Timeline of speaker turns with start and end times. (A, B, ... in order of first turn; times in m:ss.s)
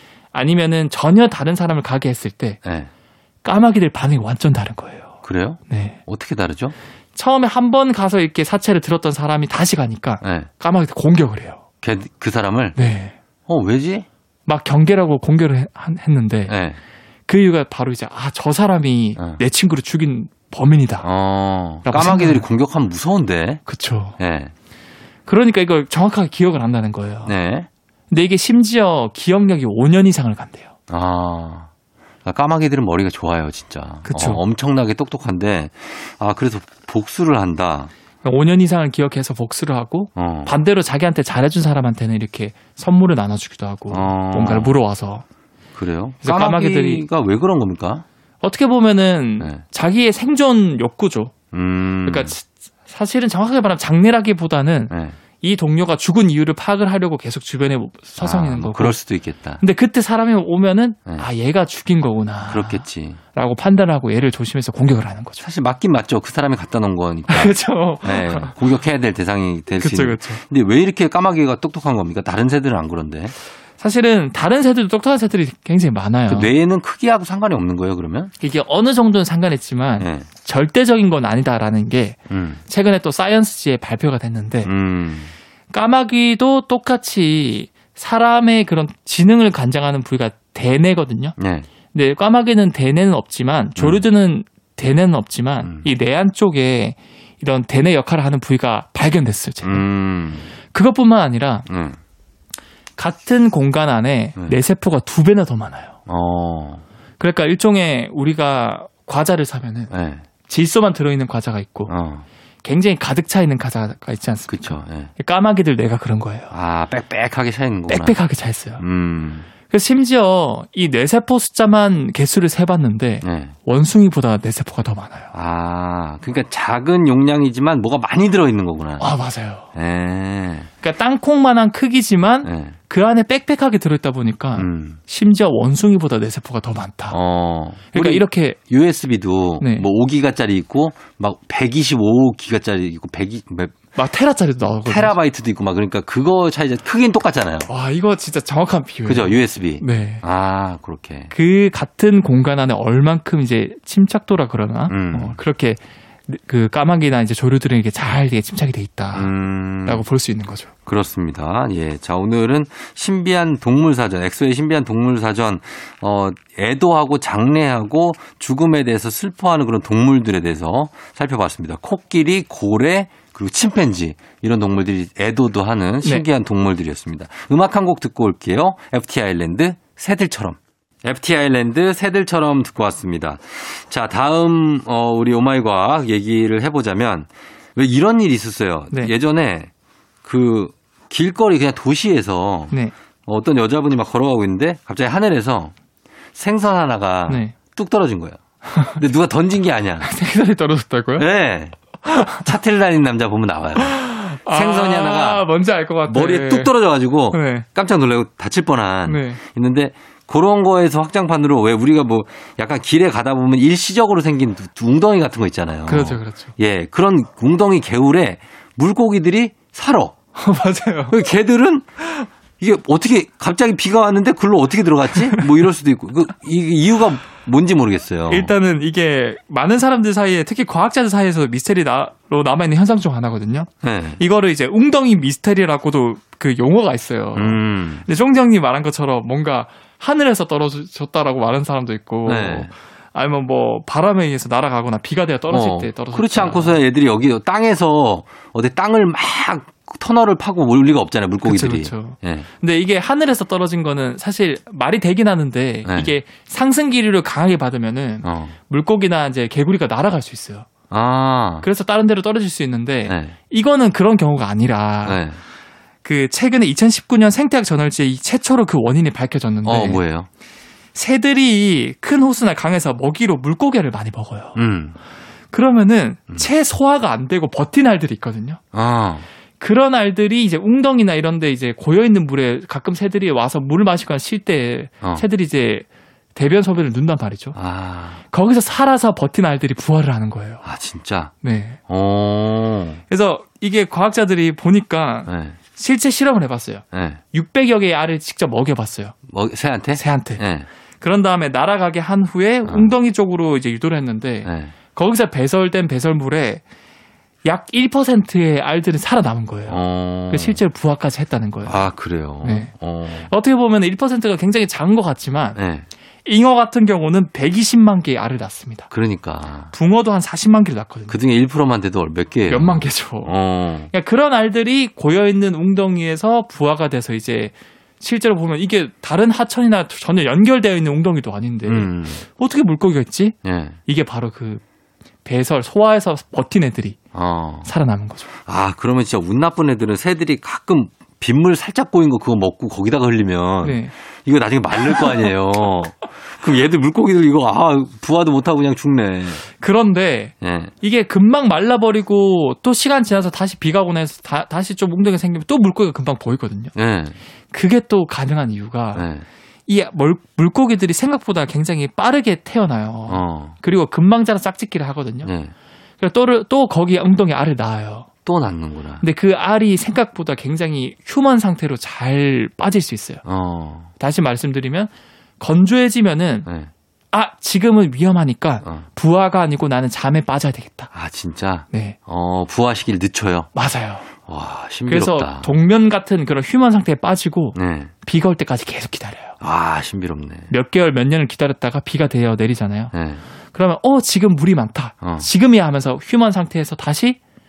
0:00.3-0:02.6 A
0:02.6-0:02.9 B
0:03.4-0:05.1 A
0:05.2-0:06.7 B
0:05.7-0:06.0 A
0:07.1-0:11.6 A
0:10.2-0:10.5 B
0:11.8-0:12.8 B
0:12.8-0:13.2 A
0:13.5-0:14.1 B
0:14.5-0:16.6 A
0:16.5-0:16.8 B
0:17.3-0:21.1 A
0:21.0-0:23.6 B
0:21.8-0:22.4 A
0:23.6-0:24.2 A
0:24.2-0:24.5 B
0:25.3-0:27.3 A
0:27.2-0:27.7 B
0:28.1-0:30.7 A
0:30.9-0:31.7 B
0:32.2-0:37.9 B
0:34.0-0:34.4 A
0:38.2-0:45.2 A
0:40.2-0:40.5 B
0:43.9-0:44.8 B
0:45.7-0:48.0 B
0:46.2-0:47.0 A
0:48.4-0:51.3 A
0:51.5-0:52.3 B
0:52.0-0:59.0 A
0:54.9-0:55.2 B
0:58.2-0:59.6 B
0:59.6-1:05.4 A
1:02.5-1:03.2 B
1:05.4-1:13.3 B
1:07.3-1:08.6 A
1:09.7-1:10.4 A
1:13.8-1:16.5 A
1:16.3-1:18.3 B
1:18.4-1:24.7 A
1:20.0-1:20.3 B
1:22.3-1:22.6 B
1:24.6-1:25.3 B
1:25.7-1:31.3 A
1:31.4-1:31.7 B
1:31.9-1:39.8 A
1:33.8-1:34.0 B
1:35.6-1:35.9 B
1:39.6-1:40.5 B
1:40.7-1:41.7 A
1:41.7-1:42.0 B
1:43.0-1:45.9 A
1:46.1-1:46.8 B
1:47.2-1:49.9 A
1:49.9-1:50.2 B
1:50.5-1:51.9 A
1:51.9-1:52.2 B
1:52.6-1:56.5 A
1:54.5-1:55.1 B
1:56.5-1:58.2 B
1:57.9-1:58.8 A
1:58.8-1:59.5 B
1:59.7-2:05.3 A
2:03.2-2:03.5 B
2:05.3-2:09.1 B
2:09.0-2:09.7 A
2:09.7-2:10.7 B
2:10.8-2:17.2 A
2:12.4-2:12.7 B
2:14.6-2:15.0 B
2:17.1-2:23.8 B
2:17.9-2:18.6 A
2:19.6-2:19.9 A
2:24.0-2:25.2 A
2:24.8-2:27.7 B
2:27.6-2:30.2 A
2:29.0-2:31.3 B
2:31.3-2:39.3 A
2:34.9-2:35.4 B
2:39.1-2:40.0 B
2:39.8-2:40.7 A
2:40.8-3:09.7 B
3:10.2-3:12.7 B
3:13.2-3:15.7 B
3:16.3-3:18.4 B
3:17.3-3:17.6 A
3:18.6-3:19.0 A
3:19.0-3:20.1 B
3:20.0-3:21.2 A
3:21.2-3:25.4 B
3:22.0-3:22.5 A
3:23.8-3:26.7 A
3:26.1-3:40.1 B
3:27.3-3:27.6 A
3:29.0-3:29.4 A
3:35.9-3:36.5 A
3:40.4-3:41.2 A
3:41.1-3:41.8 B
3:42.6-3:48.5 B
3:45.2-3:45.5 A
3:48.3-4:06.8 A
3:53.8-3:54.2 B
3:57.3-3:58.0 B
4:02.2-4:02.7 B
4:05.5-4:12.5 B
4:11.4-4:20.7 A
4:15.8-4:16.1 B
4:18.2-4:18.5 B
4:20.9-4:21.6 B
4:21.6-4:25.2 A
4:23.0-4:23.3 B
4:25.0-4:25.4 B
4:26.0-4:30.0 A
4:29.6-4:30.3 B
4:30.9-4:34.6 A
4:34.6-4:35.0 B
4:35.5-4:38.6 A
4:38.7-4:39.2 B
4:39.6-4:47.6 A
4:47.5-4:48.2 B
4:48.3-4:50.6 A
4:50.6-4:51.3 B
4:51.4-4:51.8 A
4:51.9-4:53.0 B
4:53.1-4:59.2 A
4:55.2-4:55.6 B
4:56.9-4:57.2 B
4:59.3-5:00.7 B
4:59.9-5:00.4 A
5:01.0-5:06.6 A
5:02.6-5:02.9 B
5:04.4-5:04.7 B
5:07.4-5:11.9 A
5:09.7-5:10.6 B
5:11.6-5:13.3 B
5:12.4-5:15.6 A
5:15.6-5:15.9 B
5:16.2-5:18.9 A
5:18.9-5:19.7 B
5:19.7-5:21.2 A
5:21.1-5:23.9 B
5:22.5-5:23.3 A
5:23.9-5:34.6 A
5:31.6-5:32.2 B
5:33.4-5:33.8 B
5:35.2-5:37.0 A
5:37.1-5:37.7 B
5:37.6-5:38.3 A
5:38.4-5:49.4 B
5:43.6-5:43.9 A
5:44.8-5:45.3 A
5:49.6-5:56.7 A
5:50.4-5:50.7 B
5:56.7-5:57.2 B
5:57.5-5:59.1 A
5:58.9-5:59.2 B
5:59.7-6:05.3 A
6:03.1-6:03.6 B
6:05.2-6:05.5 B
6:06.0-6:08.1 A
6:08.2-6:09.0 B
6:09.0-6:13.2 A
6:13.2-6:13.9 B
6:14.0-6:16.5 A
6:16.4-6:16.7 B
6:17.1-6:20.9 A
6:20.9-6:23.5 B
6:21.7-6:22.0 A
6:23.5-6:24.1 A
6:24.3-6:25.5 B
6:24.9-6:29.4 A
6:27.5-6:27.9 B
6:29.4-6:30.5 B
6:30.5-6:32.9 A
6:32.9-6:33.2 B
6:33.5-6:37.2 A
6:35.0-6:35.3 B